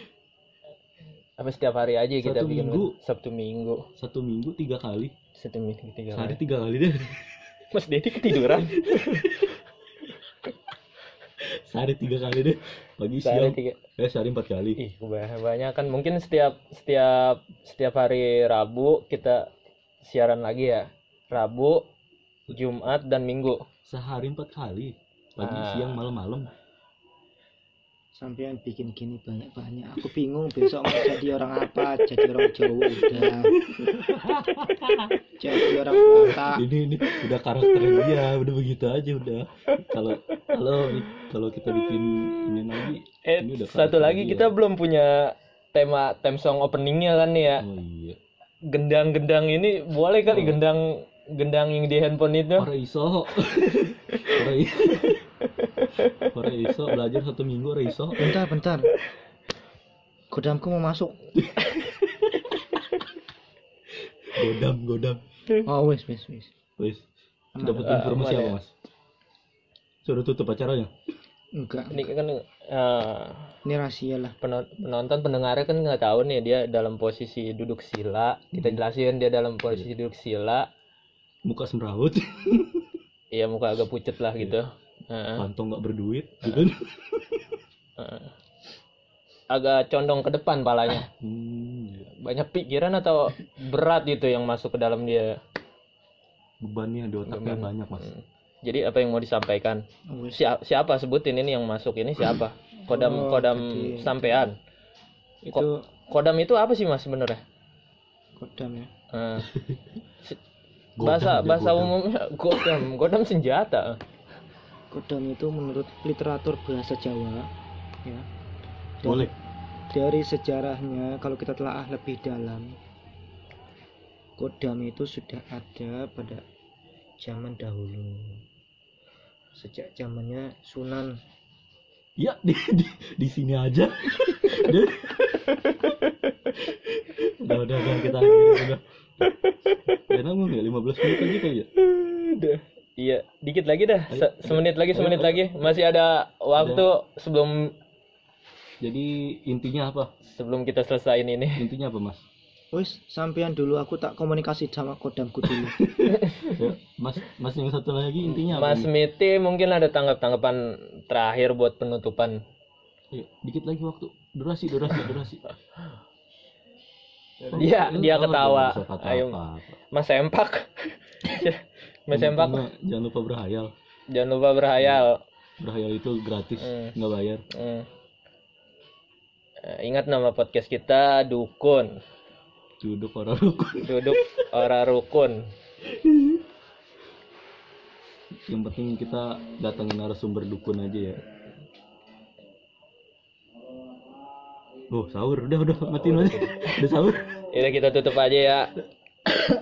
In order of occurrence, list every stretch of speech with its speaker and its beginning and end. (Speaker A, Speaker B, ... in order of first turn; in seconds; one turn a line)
Speaker A: 1.4-3.8
Speaker B: 2.2-3.0
Speaker B: 4.0-5.1
Speaker A: 5.4-6.4
Speaker B: 6.1-7.3
Speaker A: 7.7-9.4
Speaker B: 8.3-9.6
Speaker B: 11.4-14.8
Speaker A: 13.2-13.8
Speaker A: 14.8-19.5
Speaker A: 20.0-21.8
Speaker A: 22.5-23.6
Speaker B: 23.9-26.5
Speaker A: 25.4-26.0
Speaker C: 28.2-33.5
Speaker B: 33.1-35.1
Speaker A: 34.5-35.0
Speaker C: 35.4-36.6
Speaker A: 36.0-36.3
Speaker B: 36.1-44.5
Speaker A: 40.4-41.2
Speaker A: 41.8-47.6
Speaker B: 47.6-48.2
Speaker A: 48.7-52.7
Speaker B: 50.3-50.6
Speaker B: 52.6-55.2
Speaker A: 55.6-56.3
Speaker B: 56.3-58.3
Speaker C: 58.2-58.9
Speaker C: 60.3-61.2
Speaker B: 61.4-62.6
Speaker B: 64.3-65.2
Speaker C: 65.7-66.5
Speaker B: 66.8-67.1
Speaker C: 67.5-68.1
Speaker B: 67.6-68.7
Speaker A: 67.8-68.6
Speaker B: 70.0-70.9
Speaker C: 71.6-72.1
Speaker A: 71.9-73.5
Speaker C: 73.7-74.3
Speaker A: 74.4-80.7
Speaker B: 78.5-78.8
Speaker B: 81.5-82.9
Speaker A: 83.3-85.5
Speaker B: 85.3-87.6
Speaker A: 88.0-88.3
Speaker A: 89.5-91.1
Speaker B: 91.2-92.1
Speaker A: 92.2-95.3
Speaker B: 96.6-98.1
Speaker A: 97.3-99.8
Speaker C: 100.1-100.4
Speaker A: 100.3-104.5
Speaker C: 102.9-104.5
Speaker C: 105.5-105.7
Speaker A: 105.5-107.4
Speaker C: 108.4-108.9
Speaker A: 109.1-109.5
Speaker B: 109.5-109.8
Speaker B: 111.0-111.9
Speaker A: 111.0-114.0
Speaker C: 114.9-117.5
Speaker C: 119.0-119.3
Speaker B: 119.0-119.3
Speaker C: 119.9-122.8
Speaker C: 124.4-126.4
Speaker C: 127.2-128.4
Speaker C: 129.6-131.2
Speaker B: 132.2-135.6
Speaker A: 135.5-136.1
Speaker B: 136.8-138.8
Speaker A: 137.9-138.6
Speaker A: 139.2-139.9
Speaker B: 140.1-141.7
Speaker A: 141.1-147.7
Speaker B: 144.1-145.6
Speaker B: 146.6-146.9
Speaker B: 148.8-150.1
Speaker A: 150.3-151.7
Speaker B: 151.6-152.2
Speaker C: 152.7-155.8
Speaker B: 155.4-158.9
Speaker A: 156.1-156.6
Speaker A: 158.4-162.4
Speaker B: 163.1-165.4
Speaker B: 167.4-169.8
Speaker A: 167.5-169.4
Speaker A: 169.9-172.6
Speaker B: 172.1-173.7
Speaker A: 174.1-175.2
Speaker B: 174.8-175.0
Speaker B: 175.6-177.4
Speaker A: 176.6-176.9
Speaker A: 177.5-177.9
Speaker A: 179.6-181.9
Speaker B: 182.8-184.3
Speaker A: 183.8-185.4
Speaker B: 185.9-186.4
Speaker B: 188.5-191.2
Speaker B: 194.9-197.2
Speaker A: 196.0-196.8
Speaker A: 197.5-198.7